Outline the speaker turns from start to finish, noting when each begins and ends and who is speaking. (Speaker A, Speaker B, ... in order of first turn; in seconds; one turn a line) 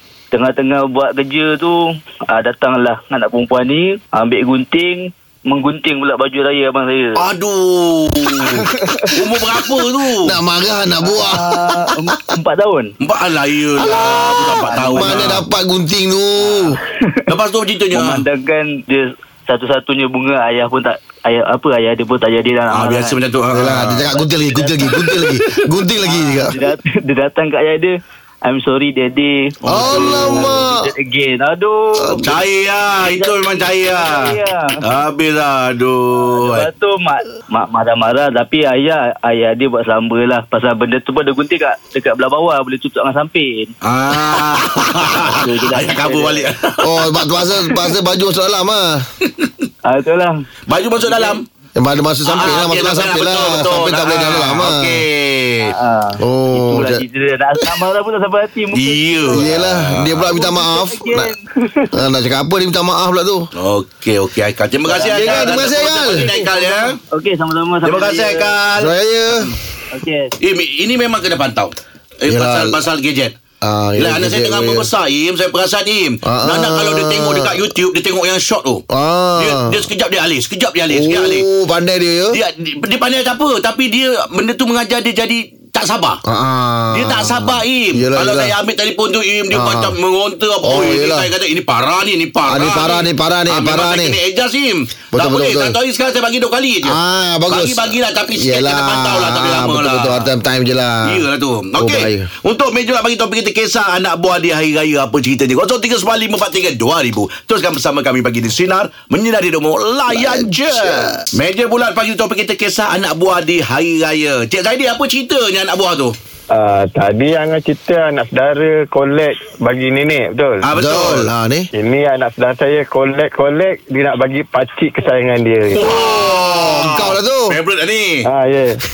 Speaker A: 0.3-7.2
Speaker B: 7.2-10.4
Speaker C: 10.2-12.2
Speaker A: 11.0-12.9
Speaker B: 13.0-15.4
Speaker C: 13.8-16.8
Speaker A: 13.8-15.4
Speaker B: 17.3-18.3
Speaker A: 17.9-23.2
Speaker B: 22.7-24.1
Speaker C: 23.5-26.6
Speaker A: 24.1-24.9
Speaker B: 25.0-25.6
Speaker A: 26.0-27.9
Speaker A: 28.4-32.2
Speaker B: 29.6-30.6
Speaker C: 29.6-30.8
Speaker C: 32.0-32.3
Speaker B: 32.2-36.7
Speaker A: 33.0-34.8
Speaker A: 36.2-43.7
Speaker B: 43.8-47.2
Speaker A: 44.2-46.5
Speaker C: 46.8-49.0
Speaker B: 49.3-49.6
Speaker A: 49.9-50.4
Speaker B: 50.7-51.5
Speaker A: 51.0-51.4
Speaker C: 51.8-55.0
Speaker B: 52.3-55.7
Speaker A: 55.6-59.6
Speaker C: 56.2-57.0
Speaker B: 58.7-60.3
Speaker C: 59.3-61.3
Speaker A: 60.2-61.9
Speaker C: 61.9-63.5
Speaker B: 63.6-67.0
Speaker A: 64.9-68.6
Speaker C: 65.1-66.3
Speaker B: 67.8-68.9
Speaker C: 68.8-69.5
Speaker A: 69.9-70.3
Speaker B: 70.4-73.4
Speaker C: 72.3-72.8
Speaker C: 73.6-74.9
Speaker B: 74.0-78.8
Speaker C: 76.2-77.6
Speaker C: 78.9-79.8
Speaker B: 79.4-81.5
Speaker C: 80.9-82.4
Speaker B: 82.3-86.2
Speaker C: 86.2-88.5
Speaker B: 86.9-100.3
Speaker C: 89.5-90.0
Speaker C: 90.6-91.3
Speaker C: 92.5-94.2
Speaker C: 95.1-95.8
Speaker C: 96.8-101.2
Speaker B: 101.0-116.2
Speaker C: 101.8-102.3
Speaker C: 110.1-111.3
Speaker D: 116.5-120.7
Speaker B: 120.6-121.3
Speaker C: 120.8-121.7
Speaker D: 121.7-125.9
Speaker B: 125.7-128.3
Speaker C: 125.8-127.6
Speaker D: 128.2-128.8